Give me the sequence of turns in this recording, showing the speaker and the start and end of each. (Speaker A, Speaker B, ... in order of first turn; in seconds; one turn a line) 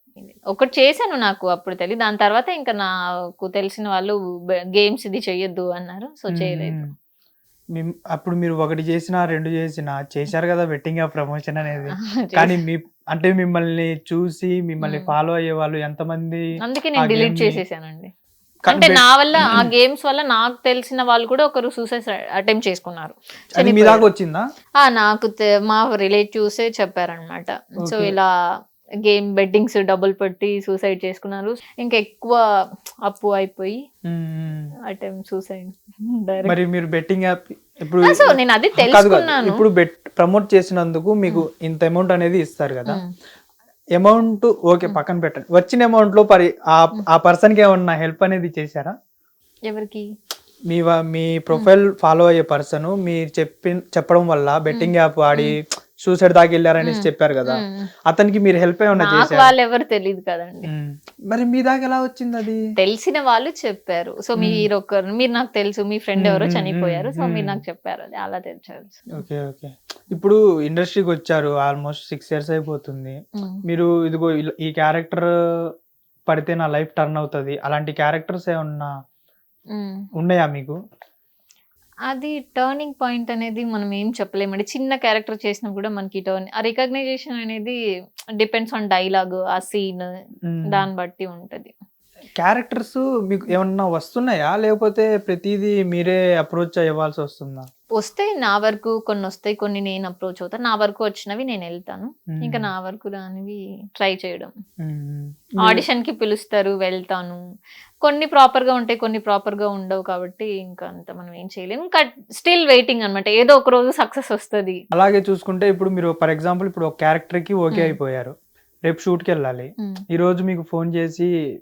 Speaker A: 0.3-4.2
Speaker A: 4.8-6.8
Speaker B: 6.3-6.9
Speaker B: 7.8-16.4
Speaker A: 11.9-12.5
Speaker A: 14.8-15.1
Speaker A: 16.6-18.1
Speaker B: 17.0-17.6
Speaker B: 18.7-19.7
Speaker A: 18.7-24.0
Speaker B: 23.6-24.4
Speaker A: 24.8-28.3
Speaker B: 27.9-28.1
Speaker A: 29.1-32.4
Speaker A: 33.1-33.8
Speaker B: 34.1-34.7
Speaker A: 34.9-36.5
Speaker B: 36.5-43.0
Speaker A: 38.0-39.6
Speaker B: 44.0-48.9
Speaker A: 49.7-50.0
Speaker B: 50.7-59.5
Speaker A: 54.7-55.6
Speaker A: 56.8-57.9
Speaker A: 59.0-60.7
Speaker B: 60.7-62.6
Speaker A: 62.8-69.0
Speaker B: 64.4-64.7
Speaker B: 66.2-67.6
Speaker B: 69.2-75.3
Speaker B: 76.3-78.9
Speaker A: 79.7-80.0
Speaker B: 80.2-80.8
Speaker A: 82.1-87.8
Speaker A: 88.4-90.1
Speaker B: 90.5-90.9
Speaker A: 90.7-91.7
Speaker B: 92.4-97.7
Speaker A: 98.0-104.5
Speaker B: 102.4-102.7
Speaker B: 104.8-105.8
Speaker A: 105.6-107.4
Speaker A: 108.0-114.8
Speaker B: 114.9-118.3
Speaker B: 118.9-121.3